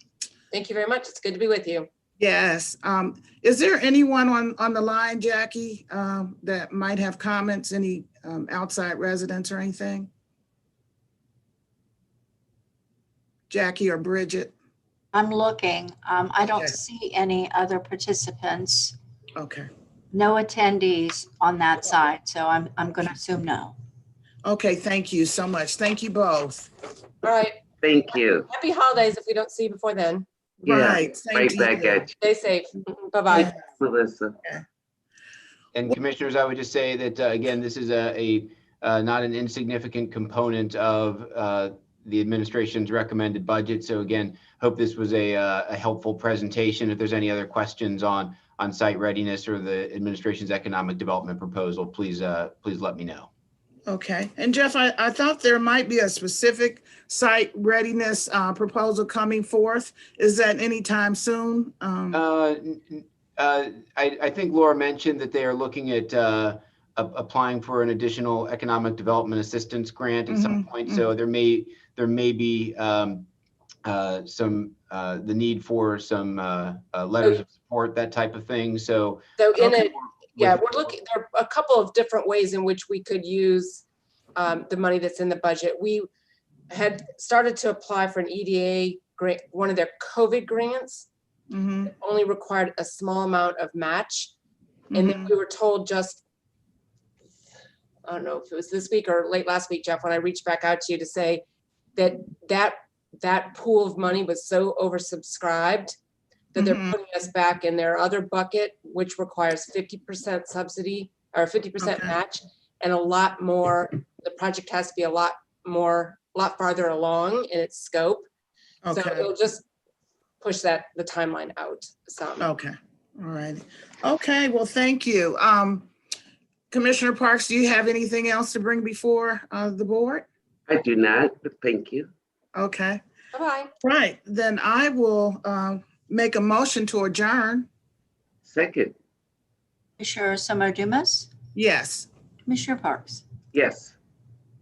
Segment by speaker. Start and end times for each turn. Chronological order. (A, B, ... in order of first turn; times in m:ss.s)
0:00.5-0:01.9 A
0:02.2-0:10.1 B
0:13.5-0:14.5 B
0:15.1-0:19.0 C
0:19.4-0:19.7 B
0:20.1-0:23.8 C
0:24.4-0:26.7 B
0:27.2-0:27.6 A
0:27.8-0:28.5 D
0:28.5-0:30.2 A
0:30.6-0:32.1 B
0:30.6-0:32.1 D
0:32.2-0:33.5 A
0:33.3-0:33.6 B
0:33.7-0:34.4 D
0:35.7-0:53.3 E
0:53.9-1:02.2 B
1:02.1-1:13.3 E
1:10.3-1:11.1 B
1:13.8-1:20.7 E
1:19.4-1:23.8 A
1:24.4-1:26.1 A
1:26.7-1:31.1 A
1:31.5-1:31.9 B
1:31.9-1:34.3 A
1:34.9-1:35.3 B
1:34.9-1:36.2 A
1:38.0-1:41.4 A
1:42.0-1:46.0 A
1:46.5-1:58.2 A
1:46.6-1:47.0 B
1:51.8-1:52.2 B
1:58.8-1:59.3 B
1:58.9-1:59.6 A
2:00.4-2:02.5 A
2:02.4-2:05.9 B
2:06.7-2:10.3 B
2:10.7-2:12.1 D
2:12.6-2:13.0 B
2:13.3-2:13.7 A
2:13.8-2:17.7 B
2:18.4-2:18.9 D
2:20.0-2:21.3 C
2:21.6-2:22.1 B
2:22.5-2:23.2 C
2:23.5-2:23.9 D